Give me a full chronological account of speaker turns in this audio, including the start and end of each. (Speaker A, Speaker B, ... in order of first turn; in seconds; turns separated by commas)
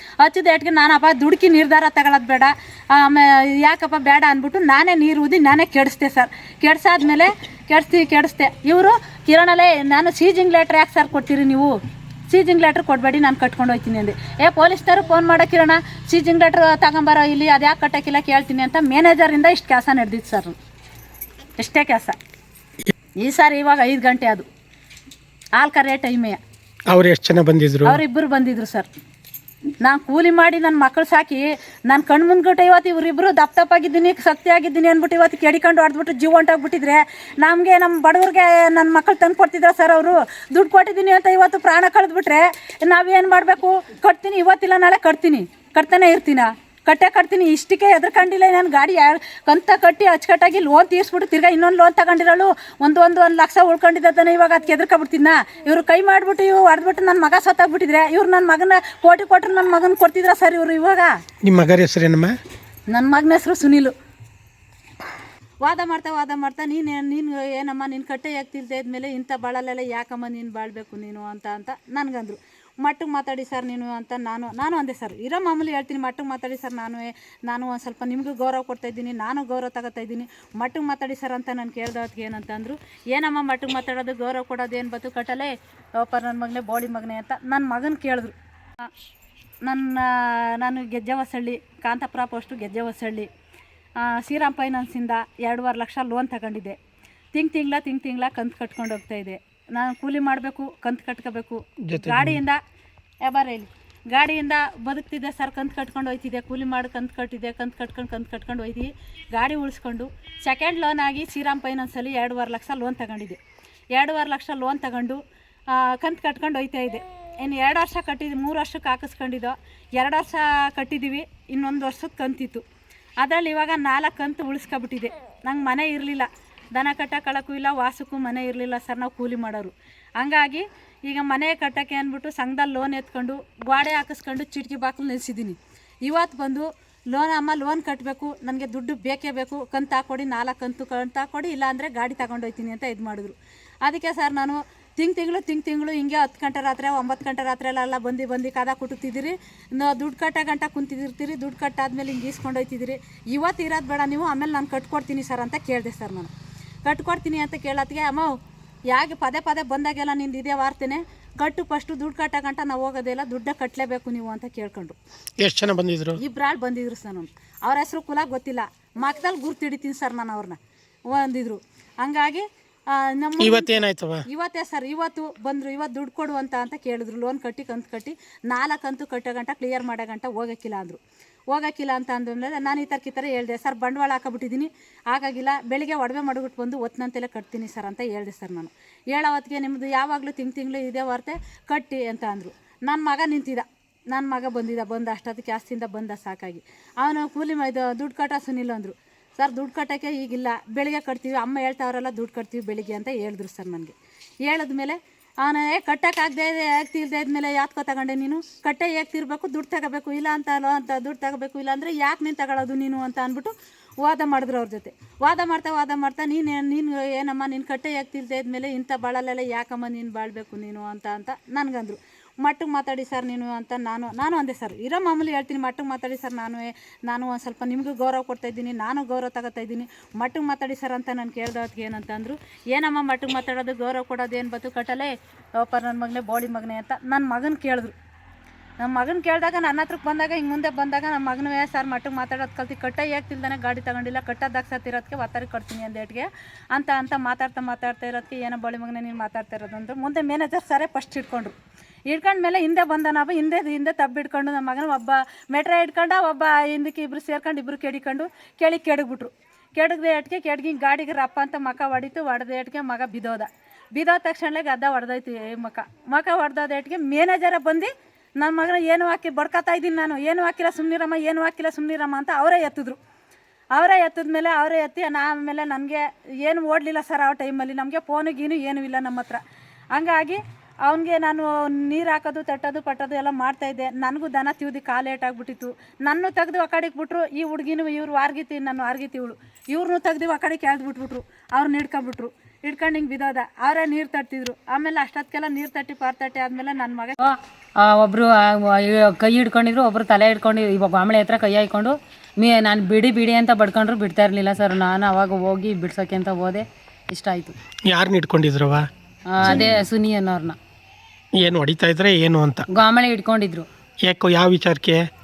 Speaker A: 0.2-11.7, Speaker A: 12.3-20.6, Speaker A: 21.6-22.2, Speaker A: 23.2-24.5, Speaker A: 25.6-26.4, Speaker B: 26.9-28.0, Speaker A: 27.9-28.9, Speaker A: 29.8-61.1, Speaker B: 61.4-62.4, Speaker A: 62.9-64.0, Speaker A: 65.6-88.9, Speaker A: 89.7-93.3, Speaker A: 94.0-96.8, Speaker A: 97.3-102.6, Speaker B: 101.9-102.4, Speaker A: 103.2-113.4, Speaker A: 114.0-122.6, Speaker A: 123.2-156.3, Speaker A: 156.9-158.4, Speaker A: 158.9-165.0, Speaker B: 165.4-166.2, Speaker A: 166.2-170.6, Speaker A: 171.1-181.0, Speaker B: 173.4-174.2, Speaker A: 181.5-237.9, Speaker A: 238.8-251.6, Speaker A: 252.1-273.0, Speaker A: 273.8-279.4, Speaker A: 279.9-297.2, Speaker C: 297.2-307.6, Speaker B: 307.9-308.9, Speaker C: 309.3-310.6, Speaker B: 309.4-309.8, Speaker B: 311.4-312.6, Speaker C: 312.7-313.7, Speaker B: 314.1-315.1